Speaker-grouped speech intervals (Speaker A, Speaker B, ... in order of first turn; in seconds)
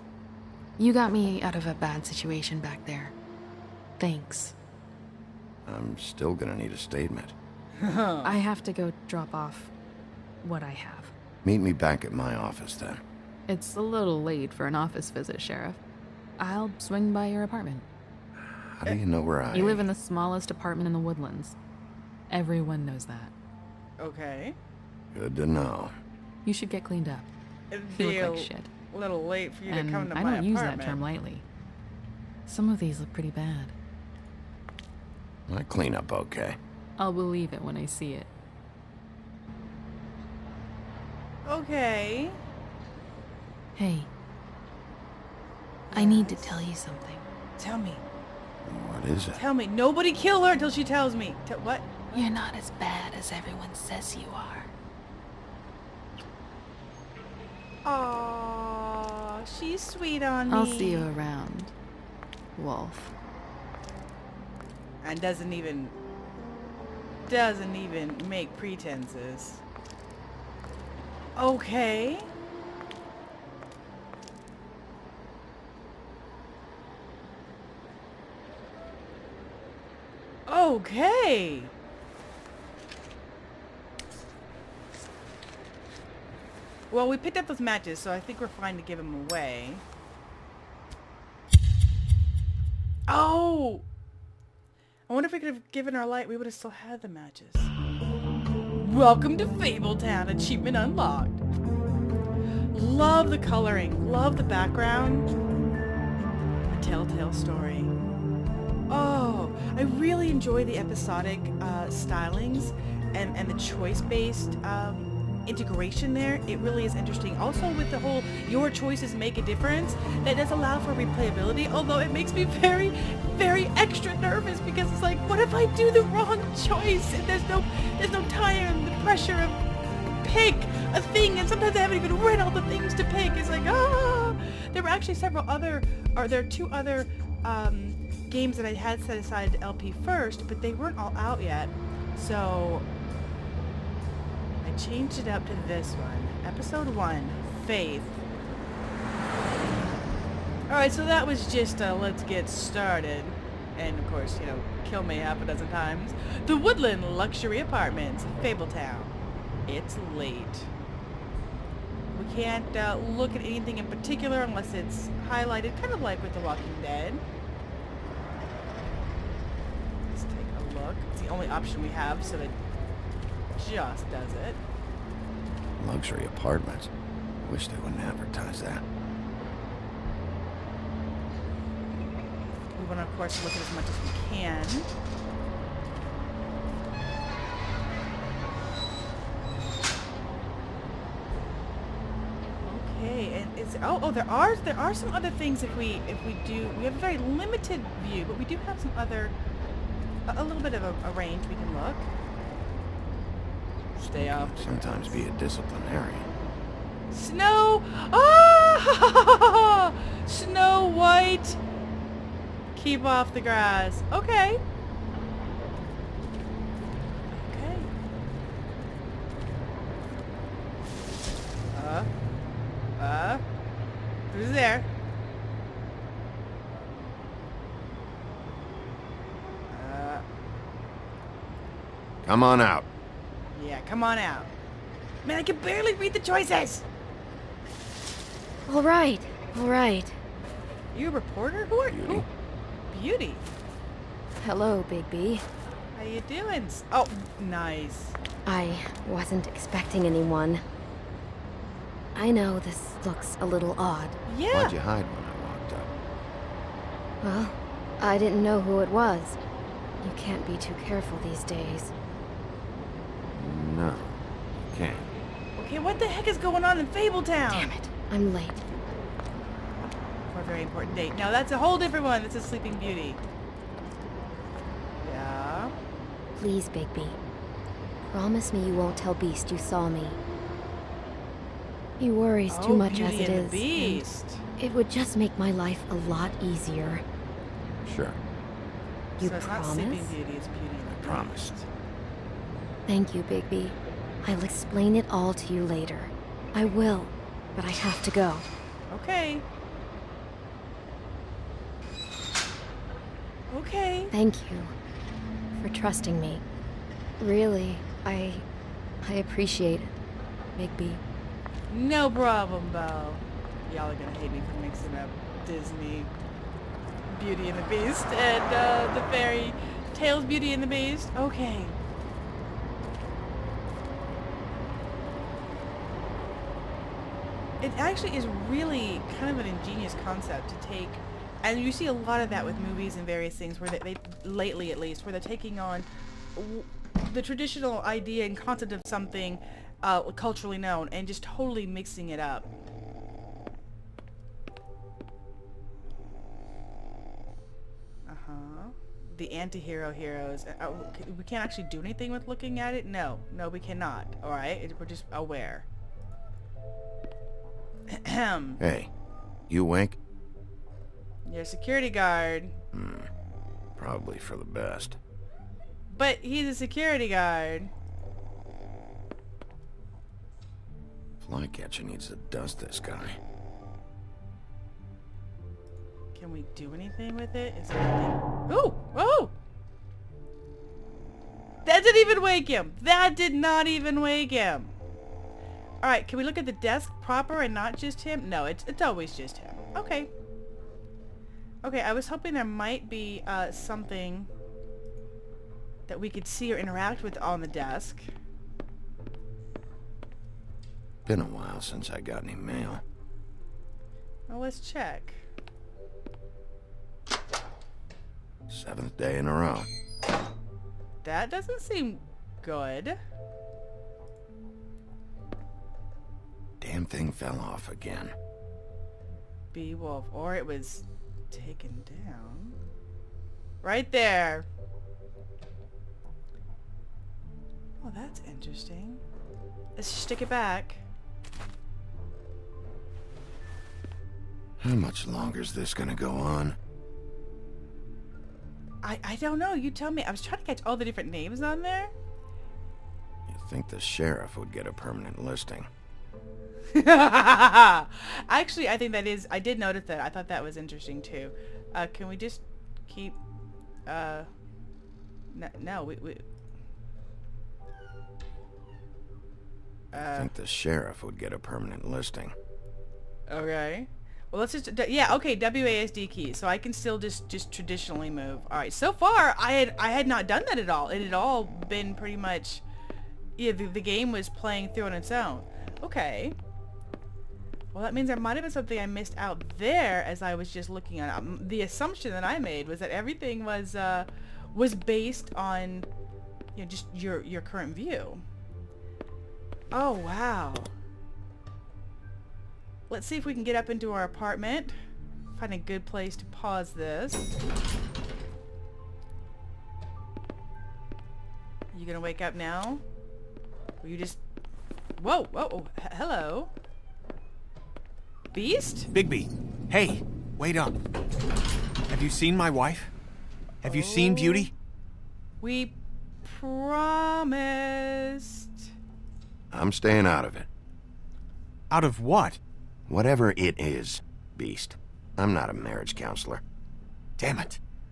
Speaker A: 0.8-3.1, 4.0-4.5, 8.2-9.7, 10.4-11.1, 13.5-15.8, 16.4-17.9, 19.5-21.6, 22.3-23.3, 26.4-27.3, 27.9-28.7, 29.7-31.4, 32.5-33.7, 37.0-38.3, 43.8-44.1, 45.9-47.2, 52.1-54.7, 60.5-61.7, 62.6-63.1, 244.4-245.4, 267.5-267.9
Speaker B: 5.7-7.3, 11.4-13.0, 18.4-19.9, 25.1-25.9, 35.5-36.6, 48.6-49.4, 175.8-176.9, 177.4-178.8, 204.0-206.3, 232.2-232.9, 241.9-242.3, 254.5-255.9, 263.3-264.1, 264.7-265.1, 287.9-288.2, 291.0-291.6, 358.6-358.9, 359.5-360.0, 362.7-363.1, 363.8-365.0, 371.2-373.2, 401.1-402.8, 408.5-409.7, 416.6-418.1, 434.6-436.6, 443.3-445.7, 460.0-462.4, 519.5-520.5, 522.9-526.4
Speaker C: 7.8-8.4, 24.0-24.6, 27.7-31.0, 41.5-42.4, 45.9-46.7, 47.6-48.0, 49.3-52.3, 57.9-61.1, 65.0-66.0, 67.3-69.6, 71.4-72.3, 80.5-81.7, 86.9-89.8, 93.1-93.9, 95.1-97.7, 98.8-101.4, 102.7-105.3, 106.7-107.9, 108.9-129.6, 130.2-142.9, 144.6-148.2, 150.7-159.1, 159.7-160.7, 162.1-167.2, 170.1-172.6, 173.6-174.6, 182.8-184.9, 192.6-199.3, 200.3-202.1, 204.0-205.2, 207.1-211.6, 212.8-214.6, 217.3-217.9, 221.7-222.1, 223.0-223.4, 224.3-224.9, 229.7-230.2, 233.5-234.5, 235.2-236.8, 240.9-242.3, 242.9-243.5, 245.9-248.2, 254.3-254.8, 265.6-267.7, 270.3-273.2, 275.0-275.7, 282.5-284.4, 289.2-291.7, 298.9-299.4, 303.5-304.1, 311.7-316.1, 317.1-321.8, 327.6-342.5, 348.1-355.7, 357.9-358.6, 361.3-362.6, 365.9-367.7, 376.1-379.3, 381.6-384.7, 385.8-390.1, 391.6-394.3, 395.9-398.1, 404.3-405.2, 411.0-413.0, 419.5-422.6, 423.6-424.5, 427.8-429.0, 429.8-430.8, 438.8-441.9, 446.7-453.2, 453.9-454.3, 455.3-456.2, 459.9-460.3, 463.3-472.6, 473.4-476.4, 477.7-485.9, 486.6-488.2, 489.7-490.7, 492.9-494.8, 495.4-497.3, 501.7-502.8, 503.8-504.2, 505.0-506.5, 508.3-508.9, 513.6-514.5, 515.4-518.7
Speaker D: 238.7-240.2, 248.4-250.6, 252.2-254.2, 257.2-259.4, 260.0-261.9, 268.1-268.6, 276.4-277.2, 278.1-280.2, 282.0-284.0, 284.6-287.0, 289.2-290.1, 292.9-298.5, 304.1-304.7, 305.6-306.4, 307.2-308.5, 309.0-310.0, 310.6-311.0
Speaker E: 508.9-510.8, 511.9-512.9, 513.6-514.5, 521.7-522.4, 527.2-527.6